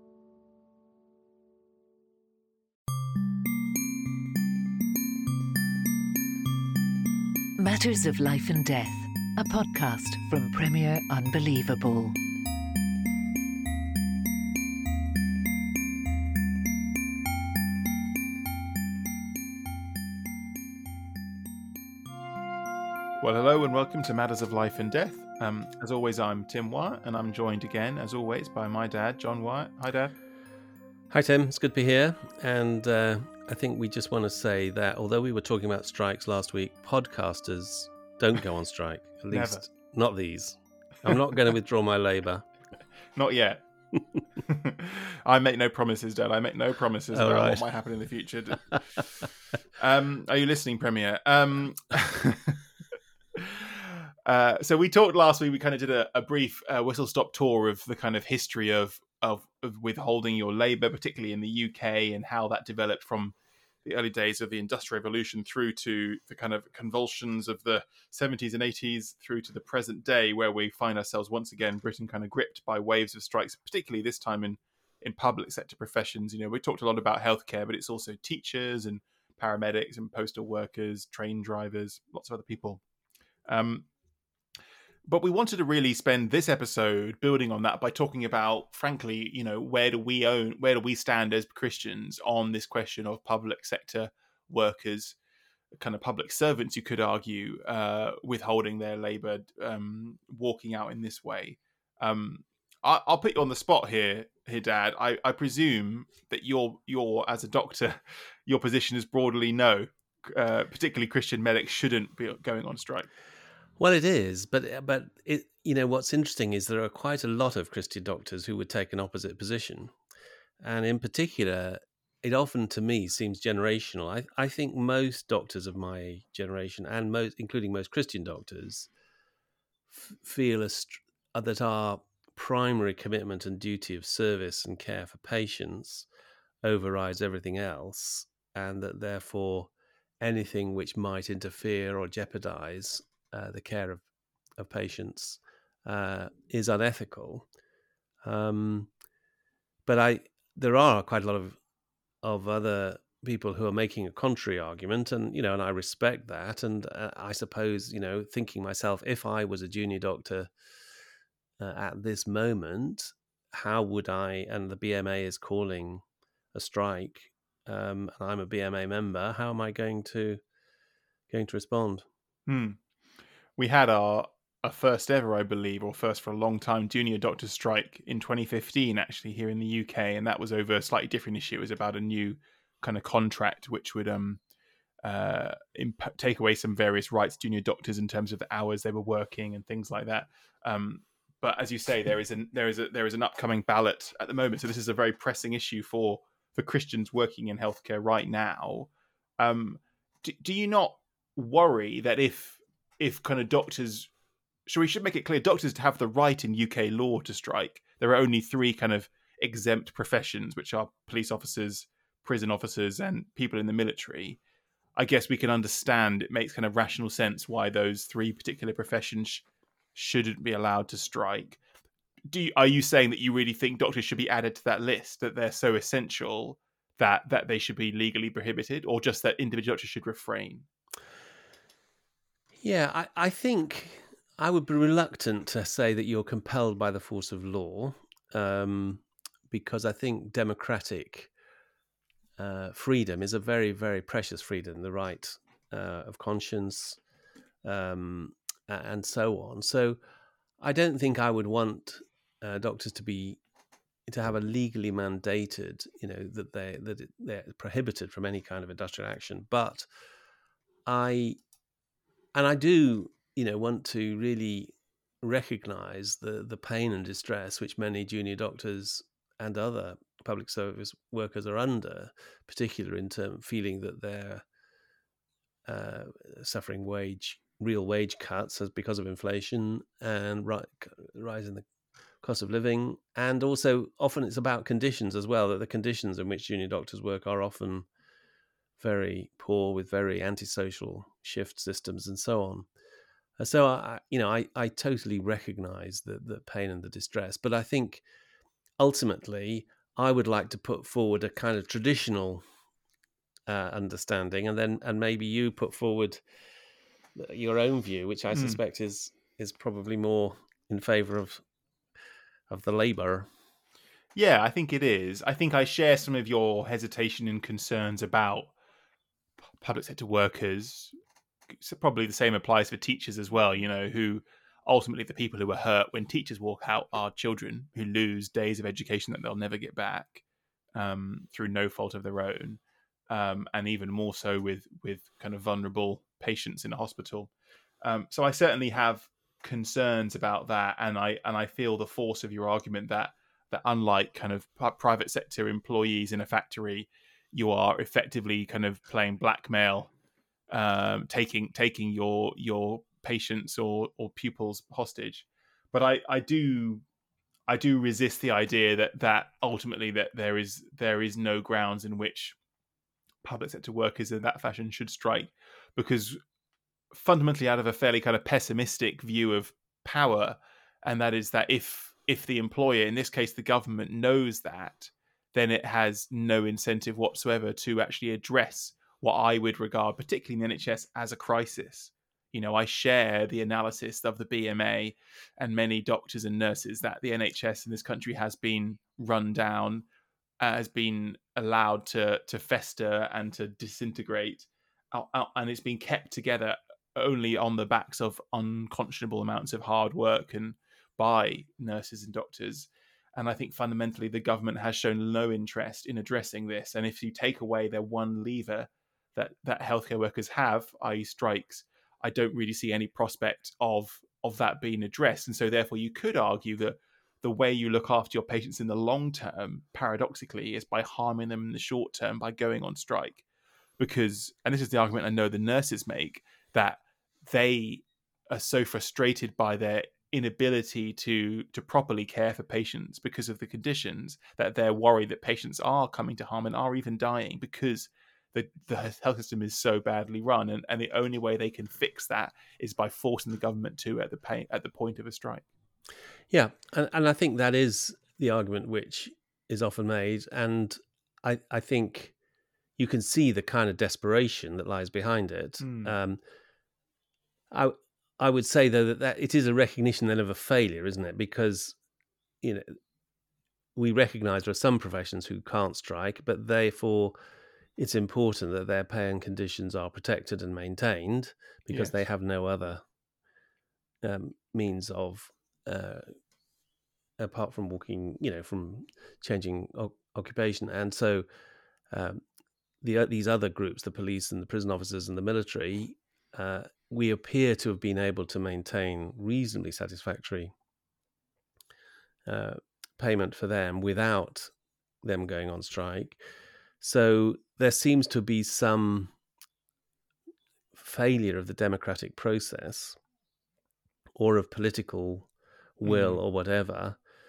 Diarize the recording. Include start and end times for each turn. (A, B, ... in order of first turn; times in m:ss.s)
0:07.6-0:12.2 A
0:23.2-0:30.2 B
0:31.1-0:42.4 C
0:39.3-0:39.6 B
0:43.2-0:43.6 B
0:44.4-0:48.8 B
0:47.1-0:47.6 C
0:49.8-0:52.6 B
0:53.3-1:22.8 B
1:23.5-1:23.9 B
1:25.1-1:35.2 B
1:35.8-1:53.1 B
1:53.8-1:59.9 C
2:00.6-2:08.9 C
2:09.9-2:16.1 C
2:16.6-2:19.7 C
2:20.2-2:24.0 C
2:24.6-2:27.4 C
2:28.2-2:28.9 C
2:29.9-2:31.6 C
2:32.2-2:40.5 C
2:41.6-2:50.4 C
2:51.3-2:52.1 C
2:52.5-2:52.8 B
2:53.6-3:04.4 B
3:05.0-3:24.1 B
3:24.7-3:34.4 B
3:35.0-3:39.4 B
3:40.0-3:41.6 B
3:42.3-3:50.7 B
3:52.6-4:01.3 C
4:02.4-4:07.0 C
4:07.6-4:10.0 C
4:10.6-4:13.4 C
4:14.1-4:19.9 C
4:20.9-4:21.4 C
4:22.4-4:34.4 C
4:35.7-4:41.6 C
4:42.2-4:47.9 C
4:48.8-4:52.7 C
4:53.4-4:58.0 C
4:58.8-5:02.4 C
5:03.5-5:06.2 C
5:07.2-5:11.4 C
5:08.3-5:08.6 B
5:12.5-5:13.3 C
5:14.2-5:18.5 B
5:19.6-5:20.9 B
5:21.5-5:30.2 B
5:30.8-5:37.3 B
5:37.8-5:49.9 B
5:50.5-5:56.8 B
5:57.5-6:02.4 B
6:03.2-6:06.2 B
6:06.9-6:29.9 B
6:30.4-7:03.2 B
7:03.8-7:25.5 B
7:26.3-7:32.1 C
7:32.8-7:36.2 C
7:35.6-7:35.9 B
7:37.5-7:41.8 C
7:42.4-7:42.8 C
7:43.8-7:47.2 C
7:47.8-7:52.8 C
7:51.7-7:52.0 B
7:54.0-7:56.2 C
7:57.2-8:01.3 C
8:01.9-8:02.2 C
8:02.8-8:10.5 C
8:12.3-8:14.5 C
8:15.0-8:16.2 C
8:16.8-8:19.1 C
8:20.8-8:23.0 C
8:24.2-8:27.0 C
8:25.8-8:26.2 B